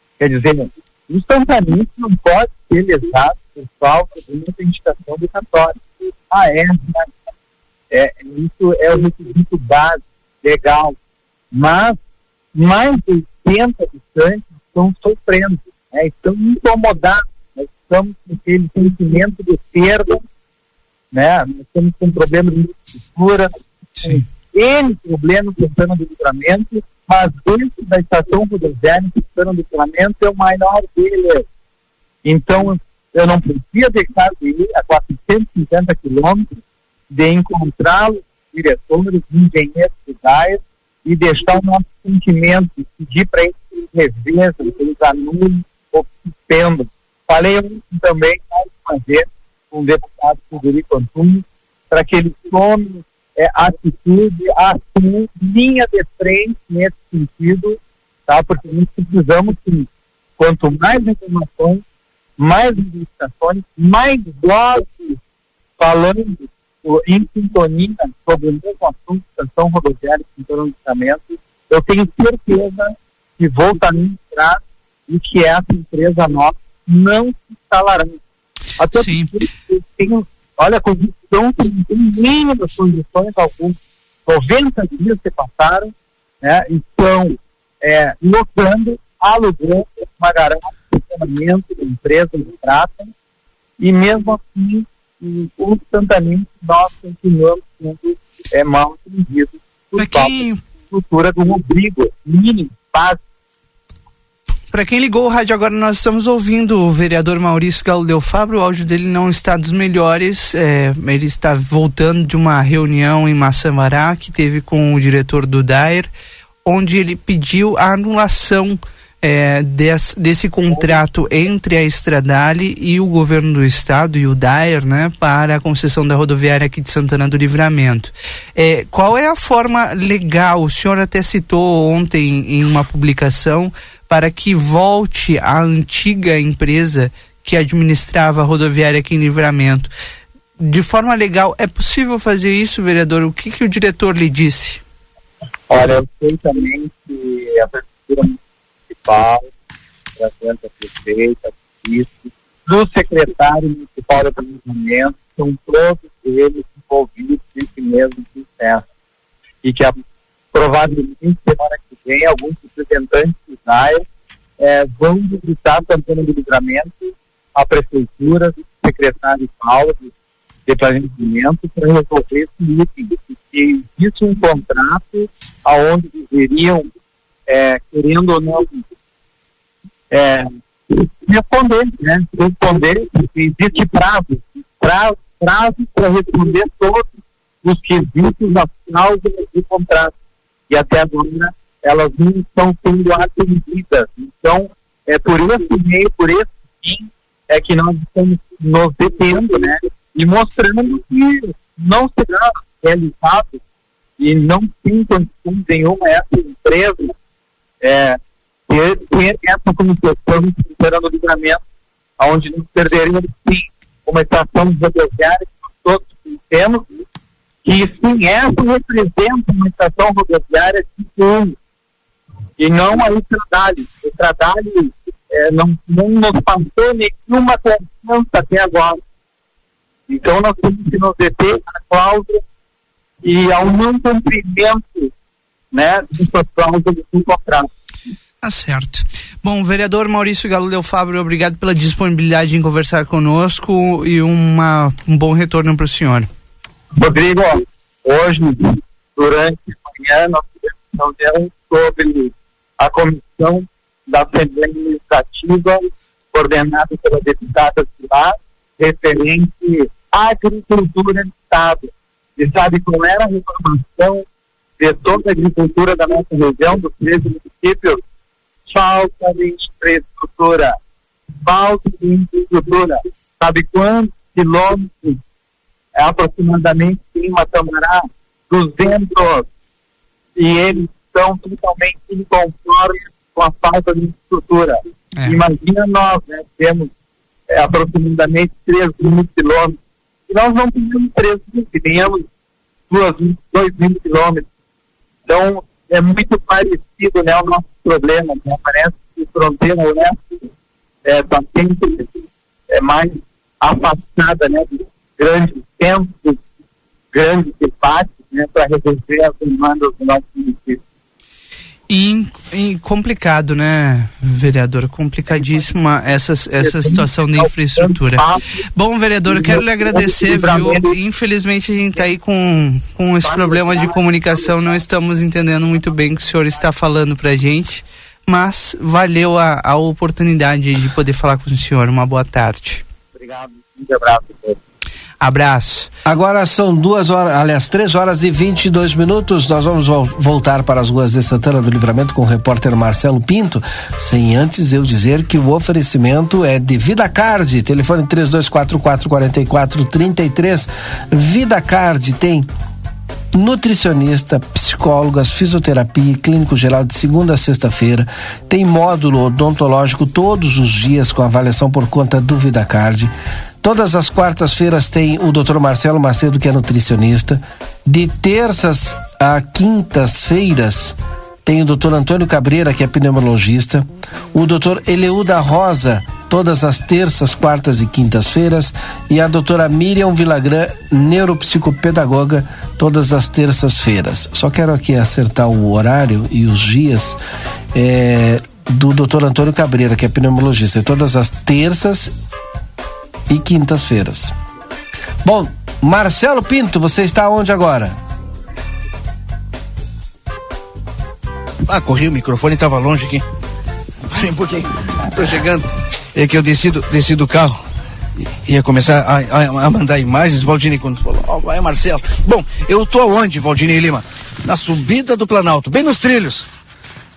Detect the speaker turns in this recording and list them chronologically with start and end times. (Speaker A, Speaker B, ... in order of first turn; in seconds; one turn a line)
Speaker A: 0.2-7.2
Speaker A: 7.9-10.9
Speaker A: 11.5-12.0
Speaker A: 12.6-20.2
Speaker A: 21.1-31.4
Speaker B: 24.0-24.3
Speaker A: 32.2-36.5
Speaker A: 37.1-59.9
Speaker A: 60.4-61.8
Speaker A: 62.4-65.2
Speaker A: 65.8-78.2
Speaker A: 78.8-93.1
Speaker B: 78.9-79.4
Speaker A: 93.8-100.4
Speaker B: 100.0-100.6
Speaker A: 100.9-103.2
Speaker B: 104.7-116.1
Speaker B: 116.7-139.9
Speaker A: 120.7-121.1
Speaker B: 140.6-144.8
Speaker A: 145.7-148.4
Speaker A: 149.0-149.5
Speaker A: 150.2-158.8
Speaker A: 159.6-160.0
Speaker A: 160.5-164.0
Speaker A: 164.6-170.1
Speaker A: 170.7-176.9
Speaker A: 177.5-178.9
Speaker A: 180.1-187.1
Speaker A: 187.6-190.1
Speaker A: 190.7-203.6
Speaker A: 204.2-207.1
Speaker A: 207.8-208.2
Speaker A: 208.7-211.6
Speaker A: 212.2-216.9
Speaker A: 217.7-221.6
Speaker A: 222.6-229.0
Speaker A: 230.1-232.4
Speaker A: 233.2-235.1
Speaker A: 235.7-237.7
Speaker B: 238.4-246.3
Speaker A: 247.0-264.2
Speaker A: 264.8-268.0
Speaker A: 268.7-270.8
Speaker A: 271.4-275.2
Speaker A: 276.0-279.5
Speaker A: 280.4-286.9
Speaker B: 285.2-285.4
Speaker A: 287.5-289.8
Speaker A: 290.3-292.2
Speaker A: 292.9-294.5
Speaker A: 295.3-300.5
Speaker A: 301.1-306.4
Speaker A: 307.1-310.8
Speaker B: 311.9-332.8
Speaker A: 316.6-318.6
Speaker A: 319.3-320.9
Speaker A: 323.3-324.0
Speaker A: 333.2-334.6
Speaker B: 335.2-335.9
Speaker C: 336.1-352.5
Speaker C: 353.3-387.2
Speaker C: 387.7-392.1
Speaker C: 393.3-394.3
Speaker C: 395.2-398.0
Speaker D: 401.6-403.2
Speaker D: 404.1-404.7
Speaker B: 405.2-405.6
Speaker D: 406.1-407.6
Speaker D: 408.4-416.5